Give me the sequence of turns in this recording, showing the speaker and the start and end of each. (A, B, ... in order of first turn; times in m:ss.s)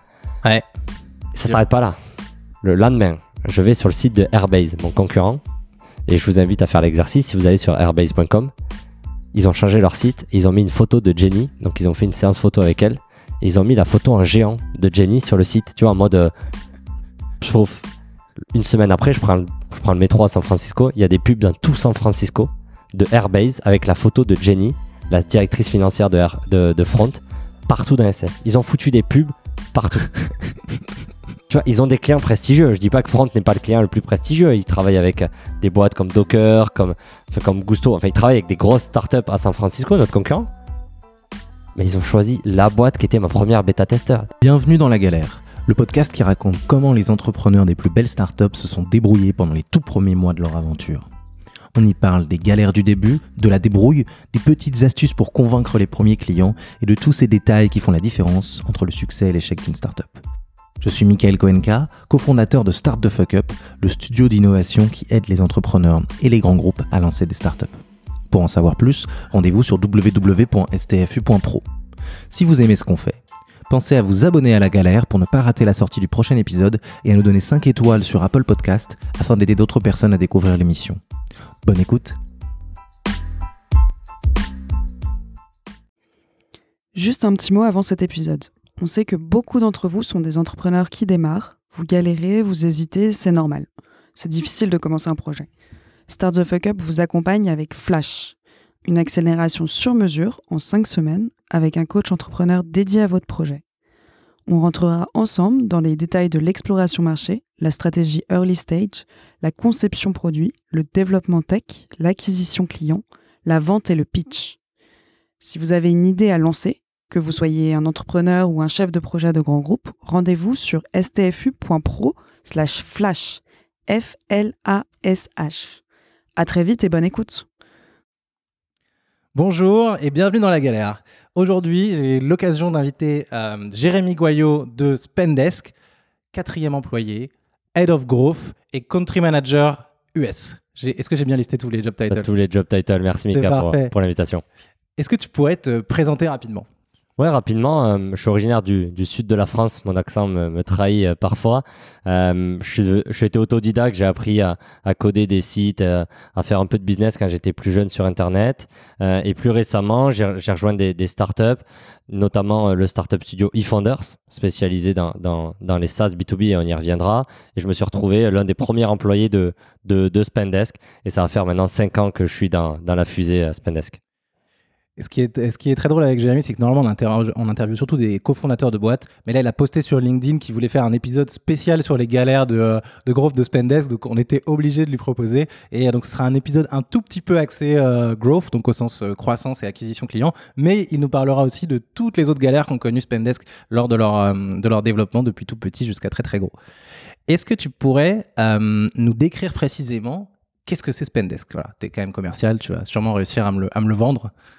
0:01.3-0:02.0 A
0:02.6-0:05.4 A
0:06.1-0:08.5 A
0:09.3-0:16.3 A
0:17.4-0:17.8 A
0:18.5-0:30.3 A
0:31.5-0:40.5 A
0:41.8-0:44.3 A
0:44.4-0:51.0 B
0:51.7-1:00.2 B
1:00.8-1:07.8 B
1:08.3-1:11.6 B
1:12.3-1:21.0 B
1:21.6-1:22.2 B
1:26.9-1:35.5 C
1:36.1-1:43.6 C
1:44.5-1:54.6 C
1:55.4-2:05.8 C
2:06.4-2:07.4 C
2:09.3-2:15.7 B
2:16.3-2:22.3 B
2:22.1-2:24.4 A
2:23.3-2:23.9 B
2:25.0-2:26.7 B
2:27.2-2:54.0 A
2:55.0-3:16.5 B
3:17.3-3:24.3 B